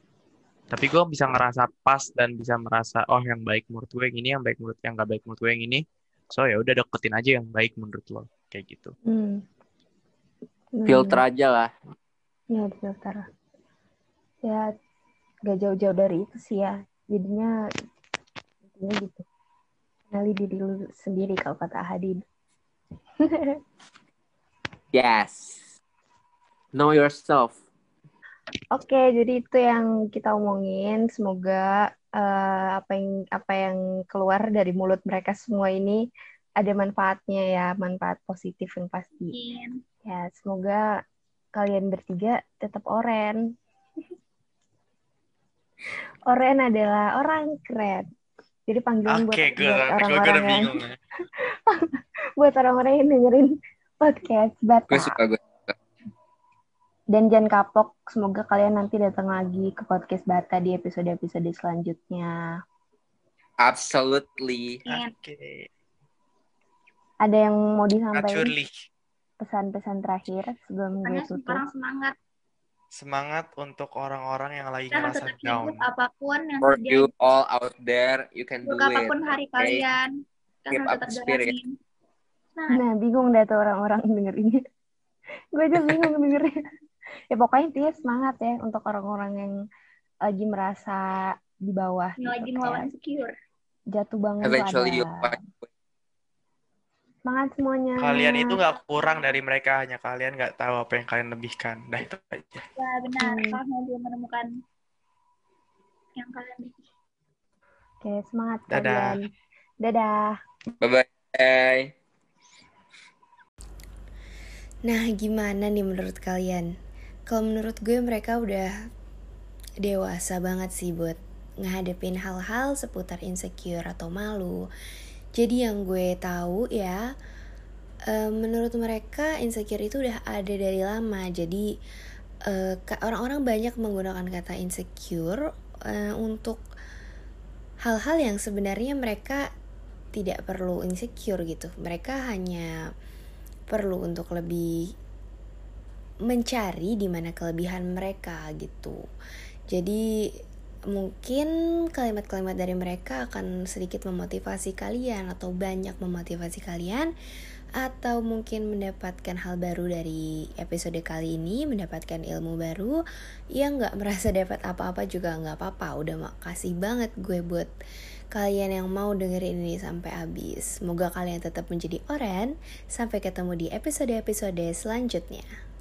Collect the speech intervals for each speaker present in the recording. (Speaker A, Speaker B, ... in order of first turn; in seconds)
Speaker A: 0.7-8.9, 49.1-51.0, 64.9-65.7, 68.1-68.7, 73.0-75.8, 98.0-102.6, 108.7-109.2
Speaker B: 9.1-9.4, 10.8-11.2, 12.5-13.2, 15.5-17.5, 18.7-19.2, 20.1-22.2, 23.2-23.6, 28.7-36.0, 36.6-39.4, 40.0-40.8, 41.5-43.4, 46.3-48.1, 48.7-50.8, 51.7-55.2, 57.1-62.4, 67.2-68.5, 69.4-71.6, 82.7-84.6, 85.5-86.6, 87.3-89.5, 90.2-92.9, 93.9-95.3, 97.3-98.5, 103.2-103.6, 108.0-109.2, 109.8-110.4
Speaker C: 10.9-11.7, 24.9-25.7, 26.7-27.6, 54.9-55.8, 63.6-64.8, 76.6-79.9, 80.7-81.5, 94.4-95.7, 110.8-111.9
Speaker D: 39.3-39.8, 64.9-65.1, 71.0-72.2, 74.9-77.1, 78.7-80.1, 80.7-81.8, 82.6-82.8, 92.2-93.3, 102.8-104.5, 106.2-106.8
Speaker E: 114.8-116.7, 117.3-118.7, 119.8-124.6, 125.3-127.0, 128.1-131.7, 132.5-136.6, 137.8-139.5, 140.1-142.7, 143.7-144.8, 146.3-149.0, 149.7-150.0, 150.9-157.1, 157.8-162.9, 163.6-167.7, 168.3-175.5